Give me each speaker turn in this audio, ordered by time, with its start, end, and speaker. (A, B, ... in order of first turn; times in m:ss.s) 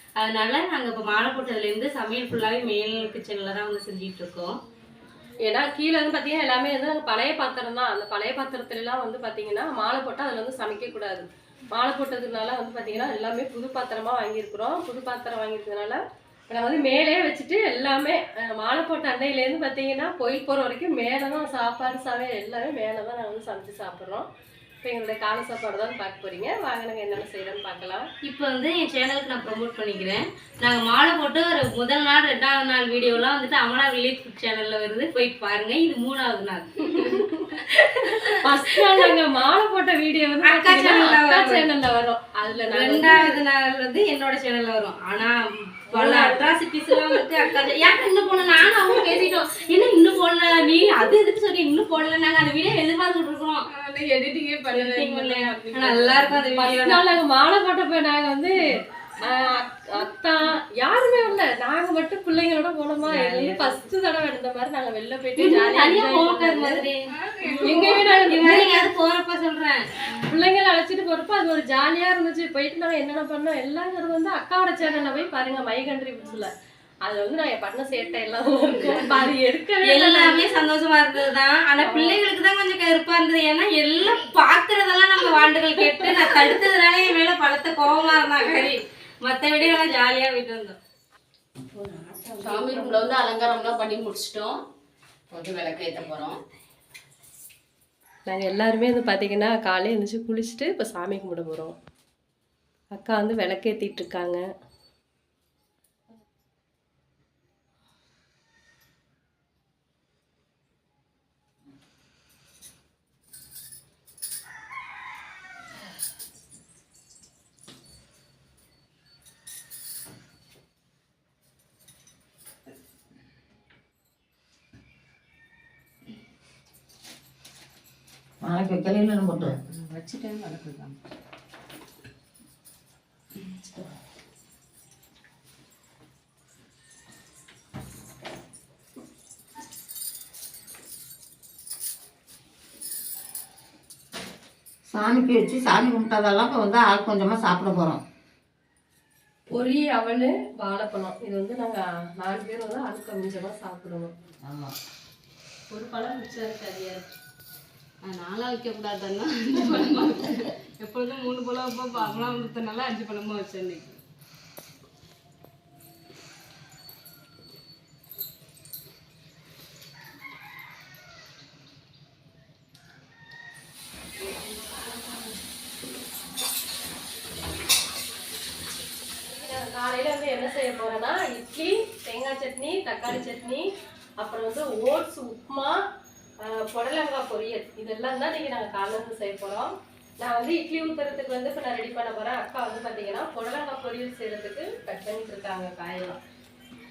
0:00.2-0:04.5 A
0:05.4-0:24.3 B
0:24.8-0:28.1 B
0:28.2-0:37.2 A
0:37.0-0:43.4 B
0:40.4-0:41.6 A
0:42.7-0:53.6 A
0:45.9-0:46.5 B
0:53.7-0:56.4 C
0:54.7-0:57.1 A
0:56.6-0:58.5 B
0:59.2-1:06.8 B
1:03.0-1:03.8 A
1:05.4-1:09.8 A
1:07.1-1:08.1 C
1:07.6-1:08.9 B
1:10.3-1:16.5 B
1:17.0-1:20.5 B
1:19.8-1:30.8 A
1:21.8-1:22.2 B
1:31.8-1:32.9 A
1:32.4-1:34.6 C
1:35.3-1:36.4 C
1:38.2-1:41.8 B
1:42.9-1:44.4 B
2:08.4-2:09.5 D
2:09.7-2:11.0 C
2:24.9-2:28.0 D
2:29.5-2:34.1 B
2:34.5-2:34.7 D
2:35.7-2:37.1 B
2:38.0-2:44.0 C
2:59.3-3:03.6 B
3:04.2-3:05.8 B
3:06.4-3:16.2 B